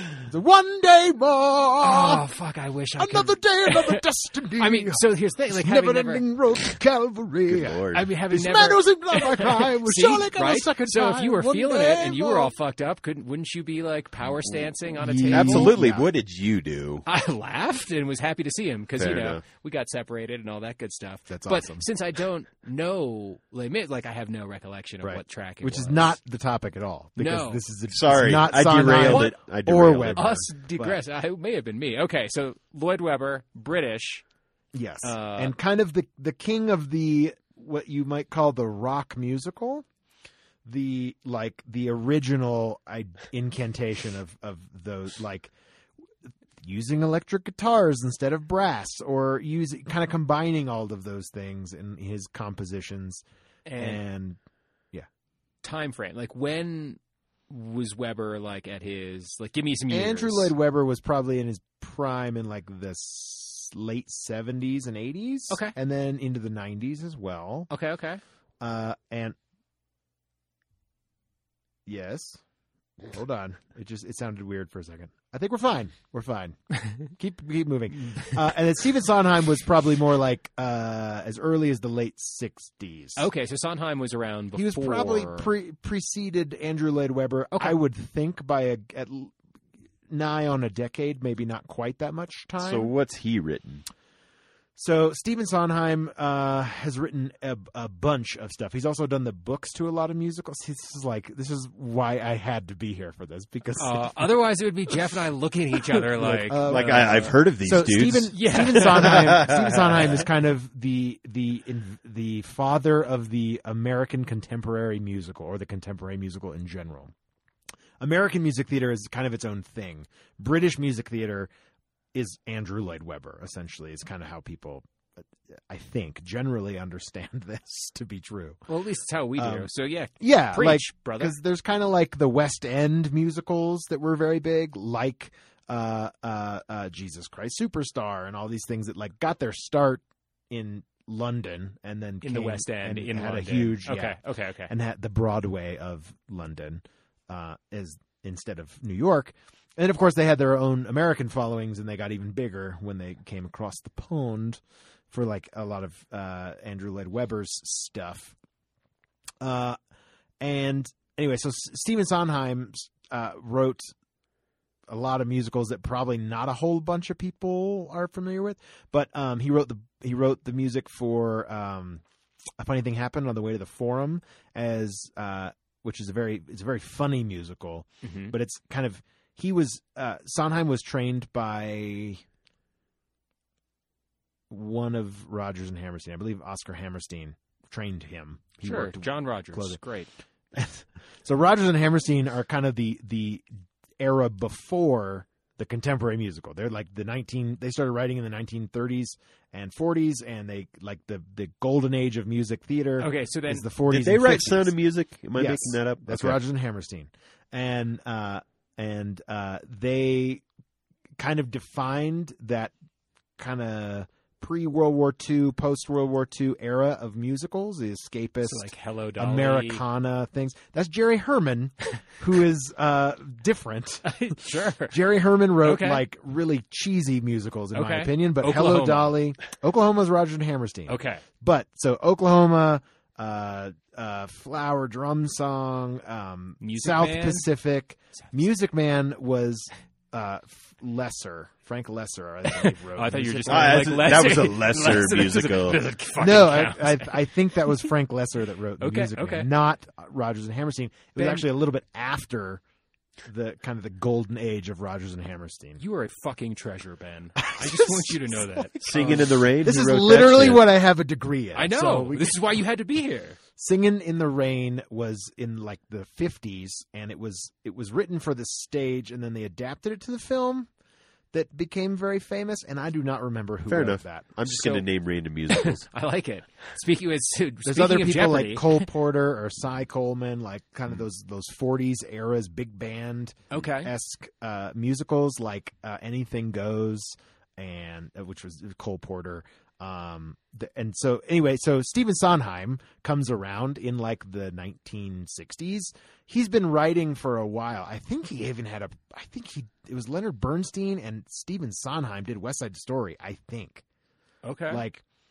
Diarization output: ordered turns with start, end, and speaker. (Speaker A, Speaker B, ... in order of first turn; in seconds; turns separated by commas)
Speaker A: 0.3-2.3, Speaker B: 1.8-4.0, Speaker A: 3.0-12.5, Speaker B: 4.6-6.8, Speaker C: 7.5-8.1, Speaker B: 7.9-15.8, Speaker C: 14.3-14.7, Speaker A: 15.0-16.1, Speaker C: 15.3-17.1, Speaker B: 17.1-26.2, Speaker C: 19.0-19.4, Speaker A: 21.3-21.9, Speaker A: 25.0-31.0, Speaker B: 27.2-27.6, Speaker C: 27.9-30.5, Speaker B: 29.1-29.3, Speaker B: 30.1-34.2, Speaker A: 34.8-39.9, Speaker B: 35.0-35.5, Speaker A: 40.6-45.5, Speaker A: 46.6-53.2, Speaker B: 53.7-54.0, Speaker A: 53.8-54.4, Speaker B: 55.6-57.0, Speaker B: 57.5-60.5, Speaker A: 59.9-67.7, Speaker B: 65.5-65.8, Speaker B: 67.7-68.2, Speaker A: 68.6-69.4, Speaker A: 71.9-72.4, Speaker A: 73.1-83.2, Speaker B: 83.2-85.5, Speaker A: 84.6-89.3, Speaker A: 90.1-92.9, Speaker C: 92.6-93.8, Speaker A: 94.8-104.3, Speaker B: 103.8-107.3, Speaker A: 105.9-117.1, Speaker C: 106.6-110.0, Speaker B: 108.3-109.4, Speaker A: 118.0-121.5, Speaker A: 122.1-124.8, Speaker A: 125.7-128.7, Speaker B: 128.7-131.3, Speaker A: 129.4-129.7, Speaker A: 130.2-144.2, Speaker B: 142.2-144.7, Speaker A: 144.7-154.6, Speaker A: 155.1-158.4, Speaker A: 159.4-159.8, Speaker A: 160.4-163.9, Speaker A: 164.9-172.0, Speaker A: 172.6-182.2, Speaker B: 178.0-178.3, Speaker A: 184.5-189.8, Speaker B: 188.6-190.1, Speaker A: 190.6-193.5, Speaker A: 194.0-204.8, Speaker B: 203.0-203.7, Speaker C: 203.9-206.4, Speaker A: 205.3-210.4, Speaker A: 211.2-212.7, Speaker A: 213.4-244.1, Speaker B: 218.4-219.8, Speaker B: 224.1-225.0, Speaker B: 225.6-226.0, Speaker B: 227.7-229.2, Speaker B: 230.9-231.2, Speaker B: 236.6-237.5, Speaker B: 242.5-247.3, Speaker C: 243.5-245.8, Speaker A: 246.2-252.6, Speaker B: 248.8-249.5, Speaker B: 251.2-251.4, Speaker A: 253.3-255.8, Speaker B: 255.8-259.3, Speaker A: 257.4-262.4, Speaker C: 258.8-260.7, Speaker B: 261.6-263.4, Speaker A: 263.6-270.7, Speaker A: 271.3-274.5, Speaker C: 273.7-275.9, Speaker B: 275.5-278.9, Speaker A: 277.6-303.8, Speaker B: 283.5-283.9, Speaker B: 304.4-304.8, Speaker A: 304.7-305.0